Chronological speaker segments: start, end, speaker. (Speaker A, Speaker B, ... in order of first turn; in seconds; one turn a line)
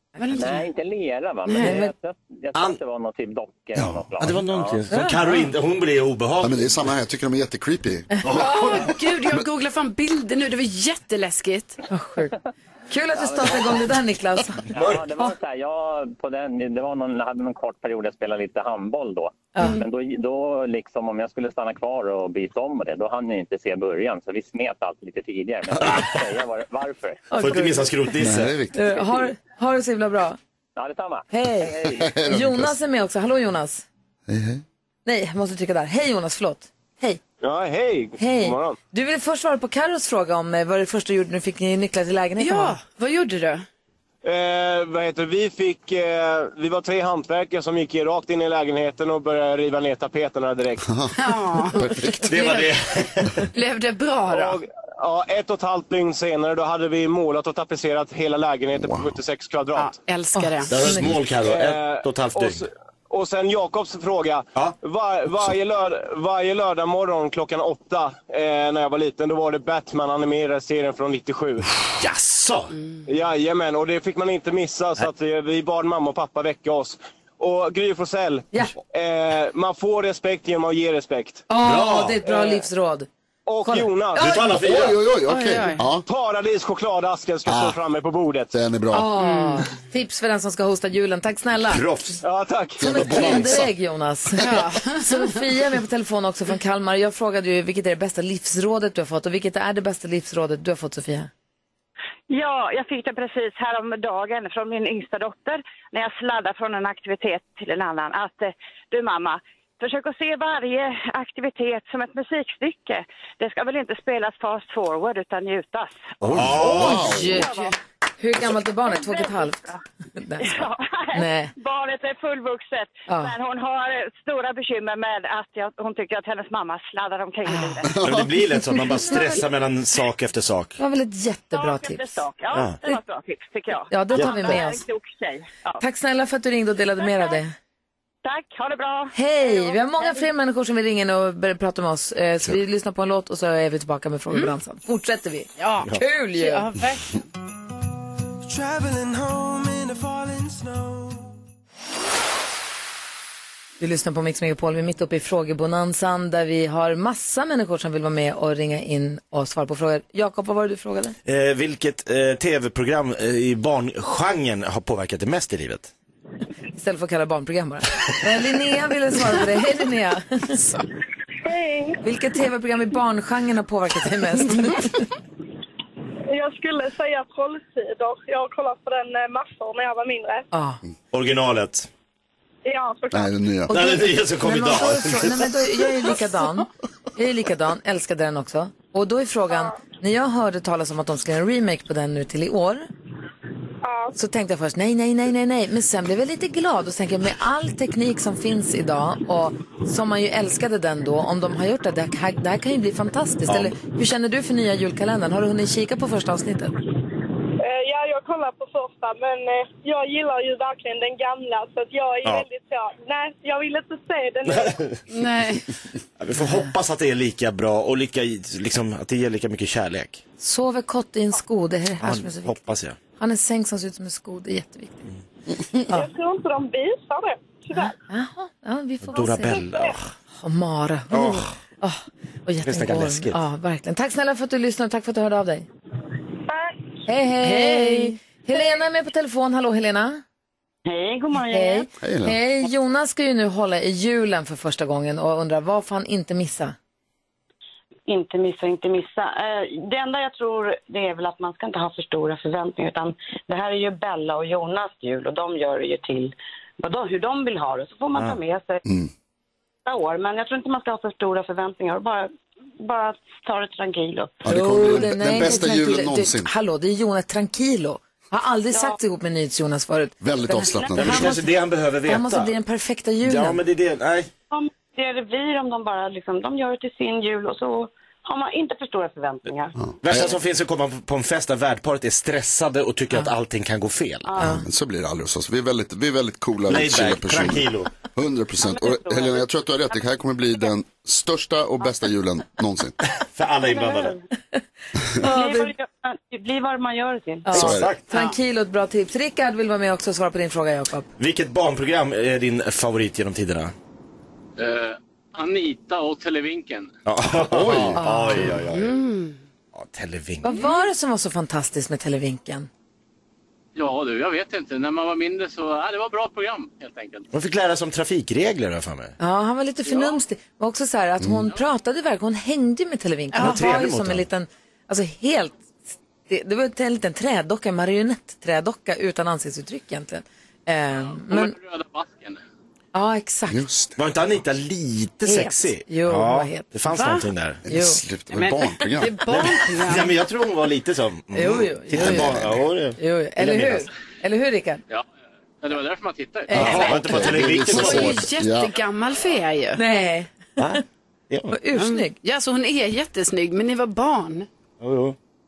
Speaker A: 0.2-0.6
Speaker B: 0.4-4.9
Speaker C: 1.5-1.9
Speaker D: 3.8-4.0
Speaker E: 4.2-6.7
Speaker C: 4.9-5.4
Speaker D: 6.4-9.4
Speaker E: 8.2-8.9
Speaker A: 8.3-11.8
Speaker C: 11.9-12.3
Speaker C: 12.9-14.7
Speaker B: 13.2-13.8
Speaker E: 14.7-15.0
Speaker B: 14.7-27.3
Speaker C: 19.5-19.8
Speaker C: 27.3-28.1
Speaker E: 27.4-28.6
Speaker D: 28.2-28.9
Speaker C: 28.7-30.4
Speaker B: 30.8-32.1
Speaker C: 31.3-33.9
Speaker D: 31.9-32.8
Speaker D: 34.3-34.6
Speaker C: 35.0-37.2
Speaker F: 37.4-38.8
Speaker C: 38.2-42.8
Speaker A: 42.4-43.6
Speaker F: 44.2-50.9
Speaker D: 50.9-52.3
Speaker A: 51.2-52.7
Speaker E: 52.2-53.5
Speaker A: 53.5-54.6
Speaker F: 54.3-60.0
Speaker D: 58.8-59.1
Speaker A: 59.8-60.7
Speaker C: 60.4-61.1
Speaker E: 60.7-62.7
Speaker F: 61.4-71.7
Speaker E: 71.9-72.7
Speaker F: 73.1-81.5
Speaker C: 81.5-83.1
Speaker E: 81.6-82.2
Speaker F: 82.2-82.6
Speaker F: 83.5-85.0
Speaker C: 83.6-84.5
Speaker E: 84.2-84.9
Speaker D: 84.6-86.0
Speaker A: 85.3-85.8
Speaker F: 86.1-88.5
Speaker D: 87.5-87.8
Speaker D: 88.5-89.1
Speaker C: 88.9-91.8
Speaker A: 89.2-89.6
Speaker E: 91.7-92.2
Speaker F: 92.2-93.6
Speaker D: 92.8-93.7
Speaker C: 92.8-101.3
Speaker A: 94.4-95.4
Speaker G: 102.3-116.1
Speaker D: 116.2-117.5
Speaker E: 116.3-117.2
Speaker C: 116.7-117.7
Speaker G: 117.2-117.7
Speaker C: 118.2-120.5
Speaker G: 118.9-119.7
Speaker G: 120.4-128.0
Speaker C: 121.1-121.5
Speaker C: 123.1-123.3
Speaker A: 127.5-127.8
Speaker D: 127.9-128.3
Speaker E: 128.0-130.8
Speaker C: 130.8-132.2
Speaker G: 131.5-135.8
Speaker E: 132.5-132.8
Speaker C: 133.9-134.8
Speaker E: 134.2-134.4
Speaker C: 135.8-137.5
Speaker G: 137.0-137.4
Speaker G: 138.2-140.1
Speaker C: 139.1-146.7
Speaker A: 145.6-147.2
Speaker C: 153.8-161.2
Speaker E: 161.3-165.9
Speaker C: 166.8-170.6
Speaker H: 171.4-172.0
Speaker C: 172.0-175.1
Speaker H: 176.3-180.4
Speaker C: 180.5-180.8
Speaker E: 181.1-181.9
Speaker H: 182.7-183.3
Speaker D: 183.1-183.8
Speaker C: 183.7-192.9
Speaker E: 183.7-185.5
Speaker H: 193.8-194.1
Speaker C: 194.2-206.8
Speaker E: 203.5-203.8
Speaker H: 207.6-214.9
Speaker E: 214.5-215.0
Speaker A: 215.1-215.7
Speaker E: 216.2-220.2
Speaker C: 216.4-216.7
Speaker C: 220.4-225.1
Speaker E: 222.0-223.0
Speaker H: 225.9-227.9
Speaker C: 227.8-229.7
Speaker E: 229.1-230.1
Speaker H: 229.7-229.9
Speaker C: 230.4-235.7
Speaker E: 231.1-231.6
Speaker E: 232.6-233.4
Speaker H: 236.5-236.8
Speaker C: 237.1-240.2
Speaker A: 237.4-238.2
Speaker I: 240.9-241.9
Speaker C: 241.5-246.8
Speaker D: 242.0-242.4
Speaker I: 248.1-258.8
Speaker D: 258.9-259.1
Speaker I: 259.9-264.4
Speaker D: 264.4-266.5
Speaker C: 264.5-271.5
Speaker D: 270.2-271.3
Speaker E: 270.9-272.5
Speaker C: 272.1-273.6
Speaker E: 273.2-274.3
Speaker I: 274.5-279.8
Speaker D: 279.8-280.4
Speaker E: 280.0-284.5
Speaker I: 284.3-284.6
Speaker D: 284.6-292.9
Speaker E: 286.7-287.9
Speaker I: 288.6-289.5
Speaker E: 293.0-294.2
Speaker I: 293.6-294.2
Speaker C: 295.2-295.7
Speaker I: 295.2-297.5
Speaker C: 297.4-301.1
Speaker E: 297.5-298.0
Speaker D: 297.6-297.9
Speaker E: 301.2-303.7
Speaker J: 304.6-306.9
Speaker E: 307.1-309.0
Speaker D: 307.4-308.0
Speaker C: 308.0-308.5
Speaker A: 308.6-309.4
Speaker E: 309.7-310.6
Speaker C: 310.4-312.7
Speaker J: 313.8-317.3
Speaker E: 317.3-319.1
Speaker C: 319.2-331.5
Speaker J: 319.9-320.2
Speaker D: 321.2-321.5
Speaker A: 323.3-323.6
Speaker E: 323.4-324.3
Speaker J: 330.9-332.4
Speaker C: 332.9-333.6
Speaker D: 333.5-334.0
Speaker E: 334.0-337.6
Speaker C: 335.2-336.7
Speaker A: 336.9-337.3
Speaker D: 337.6-339.2
Speaker C: 337.7-338.0
Speaker A: 338.3-340.1
Speaker E: 339.3-343.9
Speaker C: 341.3-342.3
Speaker D: 341.9-342.6
Speaker C: 343.0-344.8
Speaker J: 345.6-346.9
Speaker C: 346.5-346.9
Speaker E: 346.5-348.3
Speaker D: 346.6-348.7
Speaker A: 347.5-349.8
Speaker C: 349.8-350.8
Speaker E: 350.6-351.6
Speaker C: 351.5-352.2
Speaker A: 351.8-354.5
Speaker E: 354.8-355.2